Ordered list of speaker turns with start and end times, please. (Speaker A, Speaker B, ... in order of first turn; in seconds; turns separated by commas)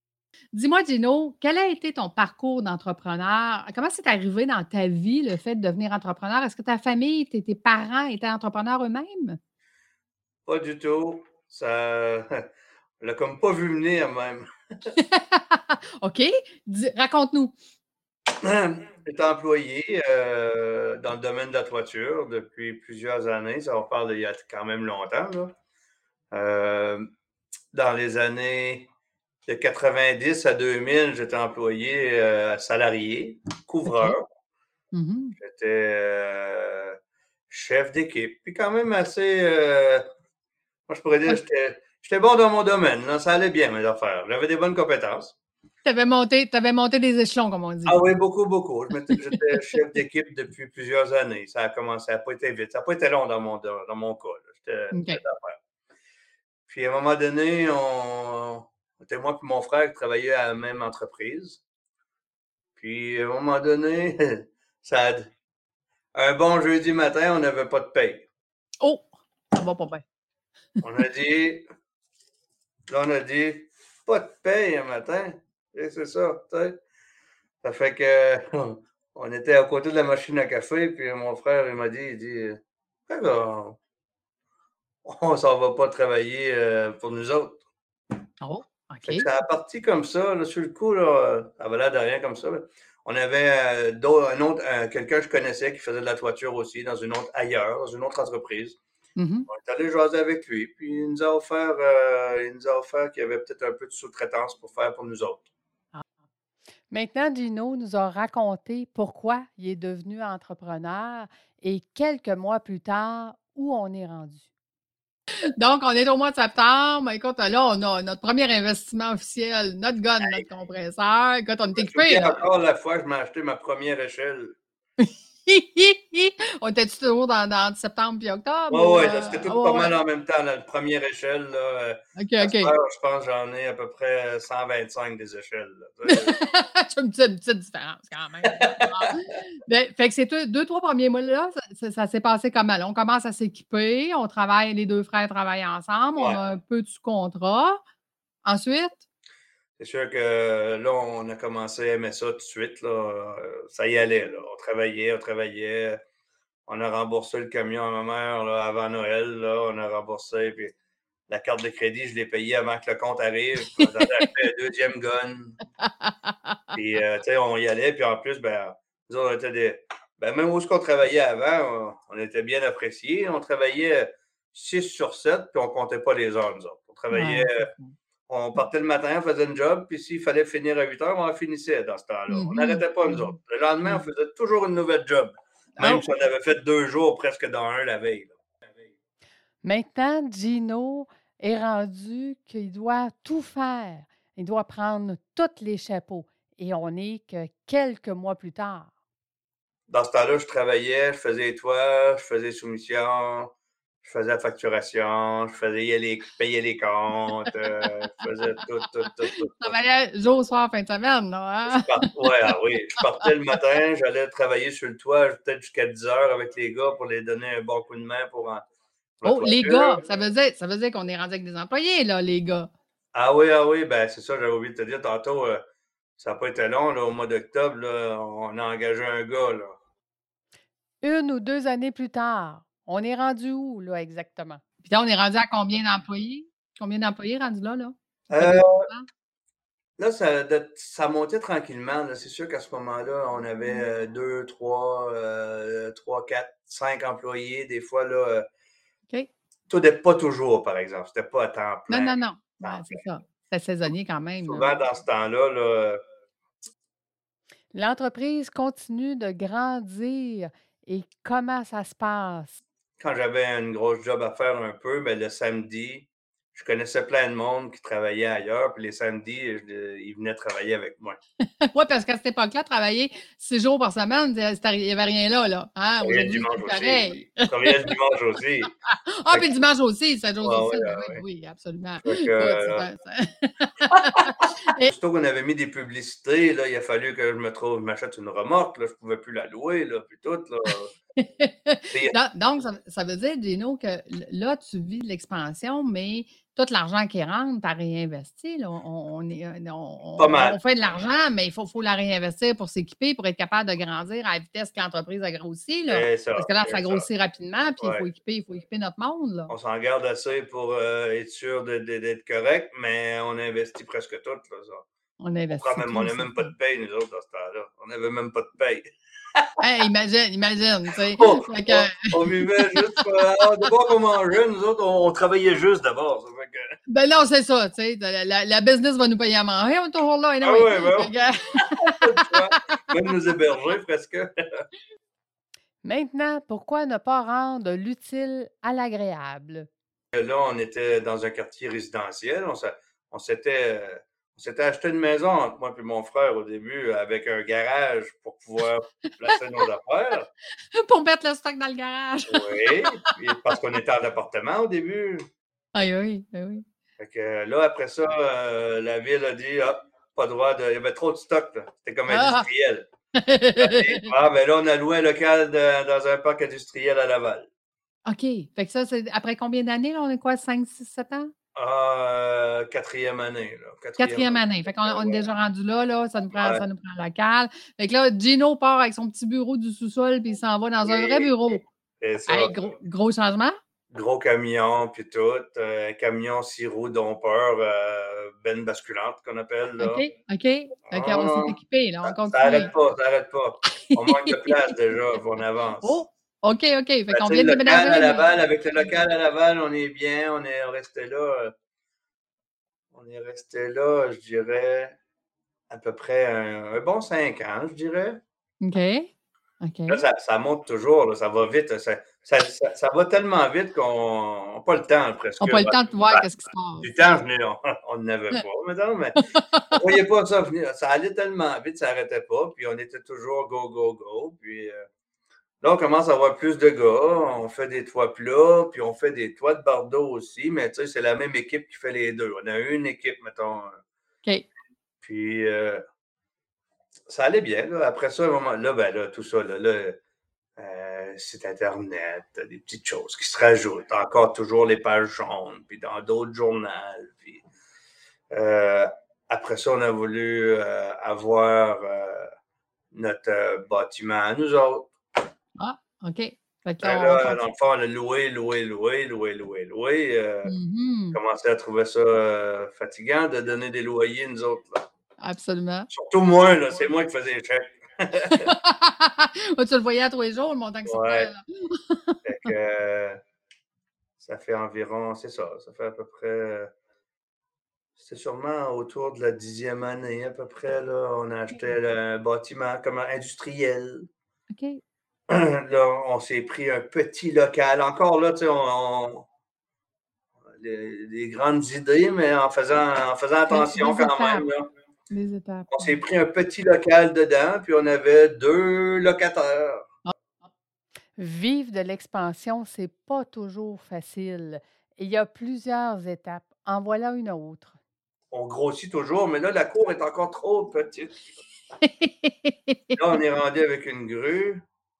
Speaker A: 0.5-9.4, Speaker B: 10.4-12.4, Speaker B: 13.0-14.5, Speaker A: 14.9-17.6, Speaker B: 18.4-25.5, Speaker B: 26.3-27.1, Speaker B: 27.7-28.9, Speaker B: 29.5-34.3, Speaker A: 33.9-34.1, Speaker A: 34.9-35.4, Speaker B: 35.4-37.0, Speaker B: 37.5-40.0, Speaker B: 40.9-45.4, Speaker A: 45.8-48.1, Speaker B: 47.9-55.6, Speaker A: 49.1-49.8, Speaker A: 54.9-55.2, Speaker B: 56.7-61.6, Speaker B: 62.8-65.3, Speaker B: 66.1-68.3, Speaker A: 68.8-70.0, Speaker B: 70.8-71.7, Speaker B: 72.9-76.8, Speaker B: 77.6-83.8, Speaker B: 85.0-87.6, Speaker A: 88.4-89.3, Speaker B: 89.0-98.8, Speaker A: 99.2-99.5, Speaker B: 99.5-105.5, Speaker A: 106.9-114.5, Speaker A: 115.4-122.4, Speaker B: 121.7-124.6, Speaker A: 125.0-129.9, Speaker B: 128.7-136.4, Speaker A: 132.2-132.7, Speaker A: 136.1-147.8, Speaker B: 138.4-139.1, Speaker A: 148.4-149.0, Speaker B: 149.8-156.0, Speaker B: 156.7-160.7, Speaker B: 161.3-165.6, Speaker A: 163.8-164.3, Speaker A: 165.8-166.3, Speaker B: 166.7-177.7, Speaker A: 177.1-177.9, Speaker B: 178.3-188.3, Speaker A: 182.3-184.0, Speaker A: 185.8-186.1, Speaker A: 189.6-198.9, Speaker B: 199.9-209.8, Speaker A: 209.6-213.0, Speaker B: 211.7-218.6, Speaker B: 219.2-220.0, Speaker A: 219.2-222.7, Speaker B: 223.1-225.6, Speaker B: 226.2-229.7, Speaker A: 231.0-239.1, Speaker B: 238.3-238.9, Speaker B: 240.0-248.4, Speaker B: 249.7-253.0, Speaker A: 251.9-254.8, Speaker B: 254.4-256.0, Speaker A: 257.7-262.6, Speaker B: 263.0-271.2, Speaker A: 271.6-277.9, Speaker B: 276.0-278.7, Speaker A: 278.9-284.9, Speaker B: 279.3-279.6, Speaker B: 280.4-281.2, Speaker B: 282.0-282.8, Speaker B: 283.9-290.9, Speaker A: 291.2-309.5, Speaker B: 291.9-292.1, Speaker B: 300.2-300.6, Speaker B: 305.9-307.1, Speaker B: 307.8-308.1, Speaker B: 309.5-314.9, Speaker A: 315.2-316.5, Speaker B: 315.5-319.5, Speaker A: 319.6-323.1, Speaker B: 321.2-326.7, Speaker A: 326.9-332.6, Speaker B: 330.4-331.1, Speaker B: 331.8-334.6, Speaker A: 335.8-339.7, Speaker B: 340.1-350.3, Speaker A: 350.7-353.1, Speaker B: 352.3-355.2, Speaker A: 355.7-356.6, Speaker B: 357.0-362.9, Speaker A: 362.1-362.4, Speaker A: 363.1-364.1, Speaker B: 363.6-367.5, Speaker A: 368.1-371.3, Speaker B: 371.5-375.2, Speaker A: 374.0-381.6, Speaker B: 376.3-376.6, Speaker B: 380.8-382.7, Speaker A: 382.3-383.6, Speaker B: 383.9-390.0, Speaker A: 389.8-392.7, Speaker B: 390.9-396.0, Speaker A: 393.8-394.7, Speaker A: 395.8-398.3, Speaker B: 397.1-401.5, Speaker B: 402.9-405.0, Speaker B: 405.7-408.2, Speaker A: 408.6-410.0, Speaker B: 409.9-416.3, Speaker A: 415.4-416.9, Speaker B: 416.8-419.2, Speaker A: 419.3-419.8, Speaker B: 419.7-424.9, Speaker B: 425.6-433.8, Speaker B: 435.0-435.8, Speaker B: 437.1-440.0, Speaker B: 440.6-447.4, Speaker B: 448.3-452.3, Speaker B: 452.9-454.9, Speaker A: 455.6-457.4, Speaker B: 456.8-460.6, Speaker A: 460.4-461.2, Speaker B: 461.1-464.9, Speaker A: 465.2-465.9, Speaker B: 465.9-468.5, Speaker A: 468.3-472.2, Speaker B: 470.8-471.3, Speaker B: 472.2-473.2, Speaker B: 474.2-476.7, Speaker B: 478.0-484.1, Speaker A: 484.5-484.8, Speaker B: 485.3-489.3, Speaker B: 490.5-494.7, Speaker A: 493.5-494.5, Speaker A: 495.1-496.0, Speaker B: 495.7-499.8, Speaker A: 501.2-507.8, Speaker B: 508.3-511.3, Speaker A: 511.8-513.0, Speaker B: 512.9-514.6